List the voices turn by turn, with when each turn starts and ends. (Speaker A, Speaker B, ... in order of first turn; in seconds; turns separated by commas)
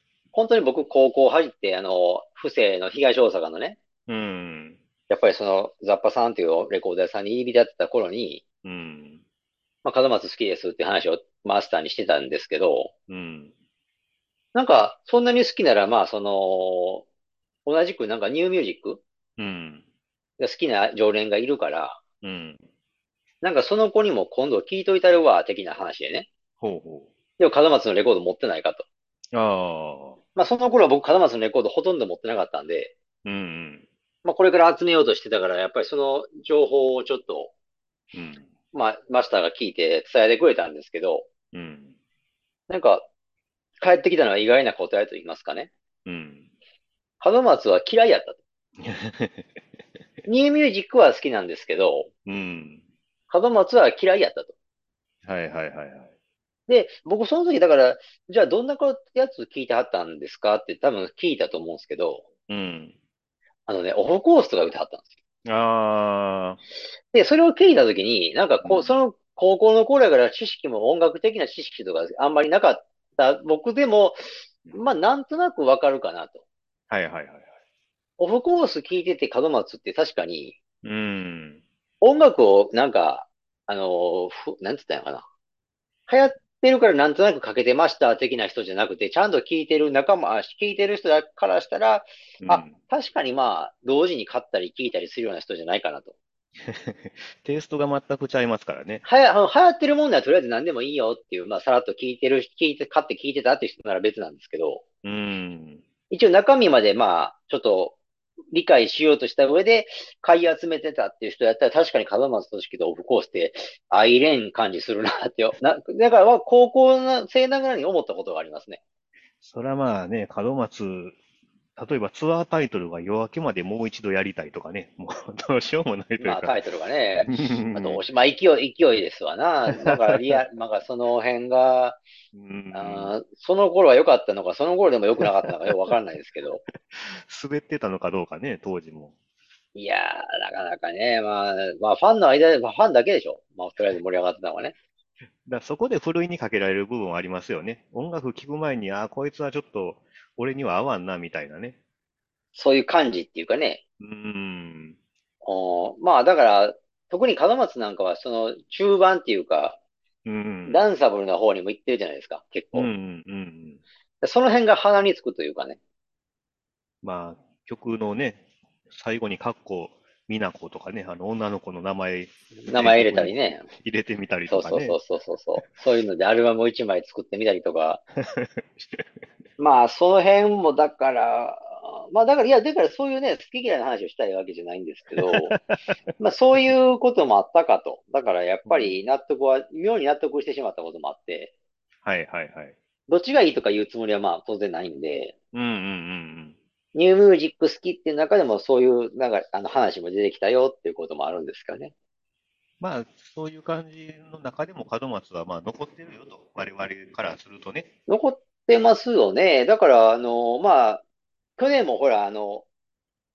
Speaker A: 0.3-3.8, Speaker B: 4.1-4.8, Speaker A: 5.1-8.4, Speaker B: 8.6-9.2, Speaker A: 9.8-12.9, Speaker B: 13.1-13.5, Speaker A: 14.5-17.1, Speaker A: 17.6-19.0, Speaker B: 19.4-19.8, Speaker A: 20.4-22.0, Speaker B: 22.2-22.6, Speaker A: 23.4-26.3, Speaker B: 26.6-27.1, Speaker A: 27.4-28.8, Speaker B: 29.3-30.2, Speaker A: 30.4-32.9, Speaker B: 33.2-33.9, Speaker A: 34.2-37.5, Speaker B: 38.1-38.5, Speaker A: 38.7-41.3, Speaker B: 41.5-41.9, Speaker A: 42.7-43.1, Speaker A: 43.8-45.7, Speaker B: 46.0-46.5, Speaker A: 47.2-48.4, Speaker B: 48.8-49.5, Speaker A: 50.2-52.1, Speaker B: 52.2-52.8, Speaker A: 53.3-54.5, Speaker B: 55.2-56.1, Speaker A: 56.7-62.2, Speaker B: 62.5-62.9, Speaker A: 63.7-65.1, Speaker B: 65.5-66.6, Speaker A: 67.1-74.2, Speaker B: 68.6-68.9, Speaker A: 74.7-76.4, Speaker B: 76.9-77.5, Speaker A: 78.2-80.5, Speaker B: 80.8-81.6, Speaker A: 82.0-85.2, Speaker A: 86.1-96.1, Speaker B: 92.4-92.8, Speaker B: 96.6-99.0, Speaker A: 99.0-104.8, Speaker B: 105.0-105.8, Speaker A: 106.1-108.0, Speaker A: 108.5-118.8, Speaker B: 119.4-121.2, Speaker B: 121.8-126.6, Speaker A: 126.2-132.0, Speaker B: 127.2-128.0, Speaker B: 129.7-130.4, Speaker B: 132.3-133.1, Speaker A: 132.7-136.6, Speaker B: 135.2-135.5, Speaker B: 136.9-139.1, Speaker A: 139.7-144.7, Speaker B: 145.4-151.8, Speaker A: 152.5-153.8, Speaker B: 154.0-155.0, Speaker A: 155.4-159.8, Speaker B: 160.2-160.8, Speaker A: 160.7-162.9, Speaker B: 162.7-163.8, Speaker A: 164.2-165.8, Speaker B: 167.0-175.0, Speaker A: 172.6-173.7, Speaker A: 174.5-178.0, Speaker B: 178.3-179.2, Speaker A: 179.6-185.6, Speaker B: 185.2-185.9, Speaker A: 186.2-191.5, Speaker B: 188.6-189.0, Speaker B: 192.0-192.8, Speaker A: 193.1-195.3, Speaker B: 195.5-196.6, Speaker A: 196.9-201.9, Speaker B: 202.8-207.9, Speaker A: 208.1-211.0, Speaker A: 211.6-212.6